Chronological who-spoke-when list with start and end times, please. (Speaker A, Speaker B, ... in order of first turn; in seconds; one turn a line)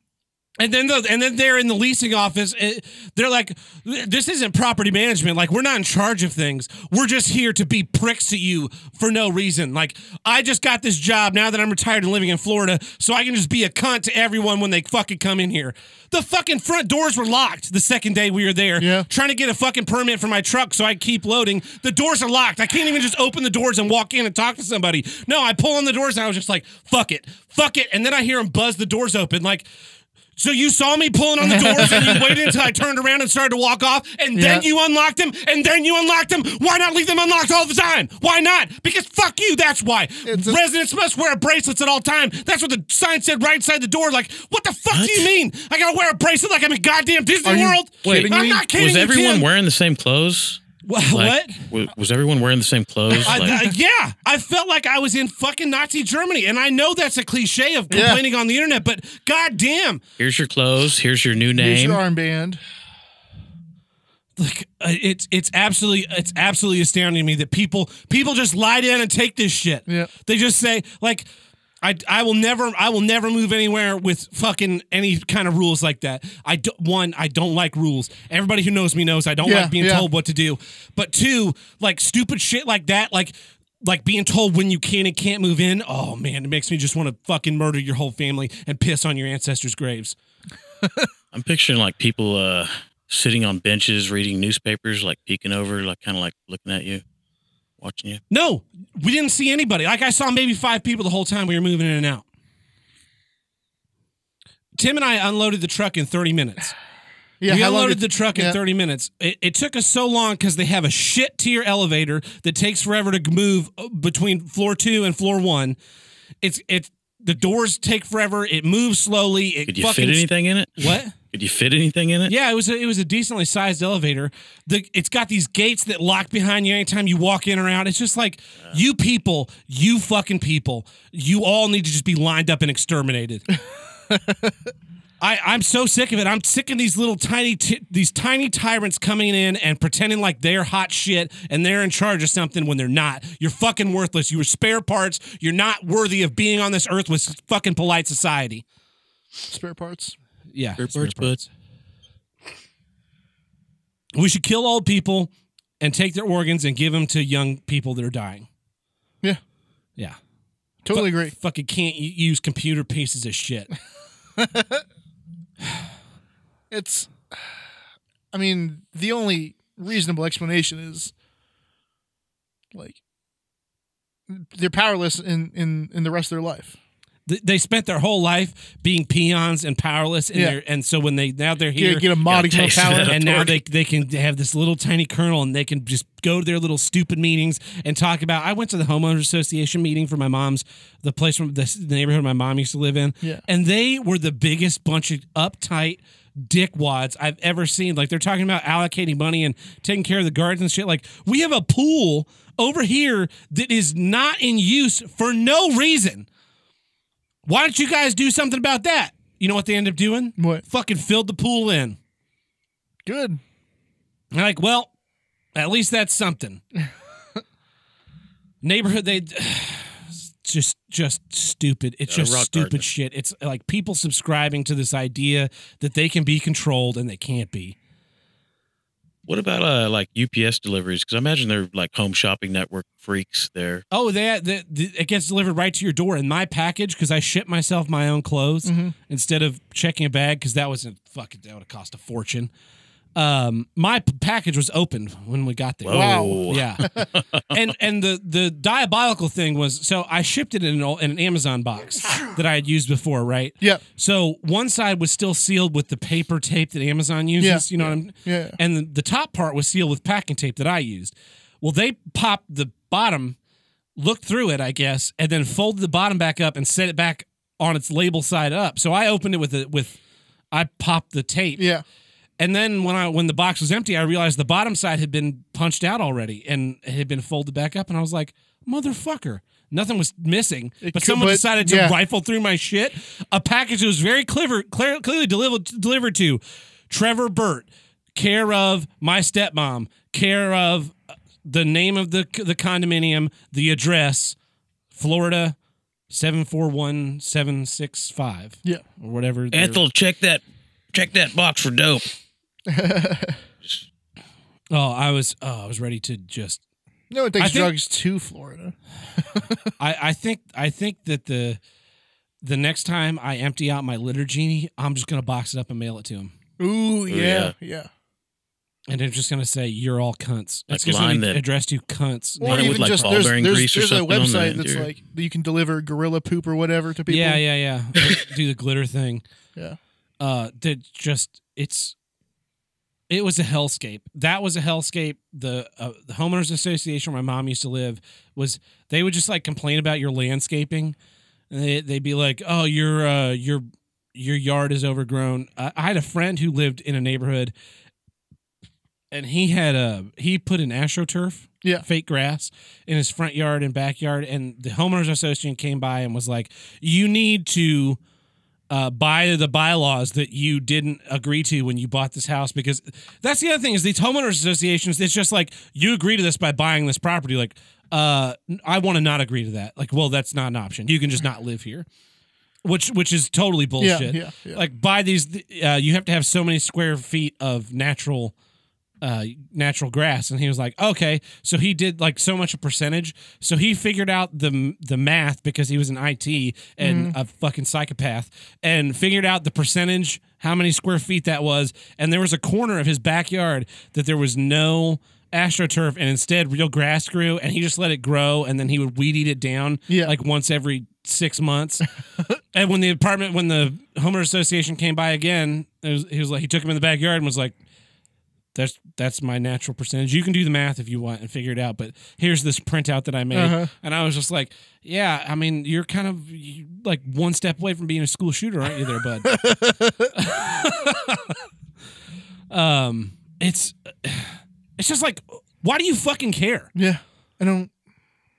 Speaker A: 0.6-29.6
Speaker B: 18.8-19.1
Speaker A: 30.4-49.5
Speaker B: 31.4-32.4
Speaker B: 34.3-34.6
Speaker B: 40.2-40.6
Speaker C: 44.9-45.3
Speaker B: 47.4-48.6
Speaker C: 48.0-53.6
Speaker A: 50.8-51.5
Speaker A: 53.2-60.0
Speaker B: 53.4-53.7
Speaker B: 57.9-58.2
Speaker C: 60.2-62.0
Speaker B: 61.6-62.6
Speaker A: 64.4-71.2
Speaker A: 71.8-90.1
Speaker B: 79.4-80.0
Speaker C: 91.3-97.0
Speaker C: 97.8-98.2
Speaker A: 98.3-102.2
Speaker A: 104.8-106.7
Speaker B: 107.4-108.6
Speaker A: 107.5-115.8
Speaker A: 116.4-120.3
Speaker C: 119.7-122.3
Speaker A: 120.8-121.1
Speaker A: 122.3-133.4
Speaker B: 134.1-134.5
Speaker A: 135.2-148.6
Speaker B: 149.5-150.1
Speaker A: 150.5-151.5
Speaker C: 150.8-151.4
Speaker A: 154.1-155.3
Speaker A: 155.8-158.5
Speaker B: 160.8-161.3
Speaker A: 160.9-163.7
Speaker B: 164.4-164.8
Speaker B: 166.7-167.2
Speaker B: 168.3-171.1
Speaker B: 174.3-176.8
Speaker A: 177.3-206.2
Speaker B: 181.8-183.6
Speaker C: 182.3-183.5
Speaker A: 207.4-212.0
Speaker B: 210.4-210.6
Speaker B: 213.1-213.4
Speaker A: 214.3-214.9
Speaker A: 215.5-216.6
Speaker A: 218.6-227.8
Speaker C: 222.1-222.8
Speaker C: 229.3-233.8
Speaker A: 233.9-242.5
Speaker B: 238.6-238.9
Speaker A: 243.1-246.9
Speaker C: 245.8-247.4
Speaker B: 245.9-246.4
Speaker A: 247.5-263.4
Speaker B: 257.4-258.6
Speaker A: 264.0-270.0
Speaker A: 270.5-271.6
Speaker B: 271.6-271.8
Speaker A: 272.4-290.9
Speaker B: 280.8-281.9
Speaker A: 291.4-294.4
Speaker A: 294.9-295.5
Speaker A: 296.1-299.8
Speaker C: 299.5-300.4
Speaker C: 300.9-302.1
Speaker B: 302.7-303.4
Speaker A: 304.7-306.6
Speaker B: 307.1-309.6
Speaker A: 307.4-307.8
Speaker A: 309.8-311.6
Speaker A: 312.4-316.3
Speaker B: 316.6-317.9
Speaker C: 317.1-317.5
Speaker A: 318.9-323.2
Speaker C: 320.7-321.4
Speaker B: 322.4-327.4
Speaker C: 322.4-324.9
Speaker A: 327.1-329.2
Speaker A: 330.2-331.9
Speaker A: 333.1-340.9
Speaker A: 341.5-347.5
Speaker A: 349.1-358.0
Speaker A: 358.7-371.9
Speaker A: 372.6-378.3
Speaker B: 373.8-374.6
Speaker A: 379.0-401.9
Speaker B: 386.8-387.1
Speaker A: 402.5-407.5
Speaker A: 408.6-419.4
Speaker B: 413.3-413.7
Speaker B: 419.2-420.1
Speaker A: 420.1-421.3
Speaker A: 422.5-426.7
Speaker B: 426.7-427.7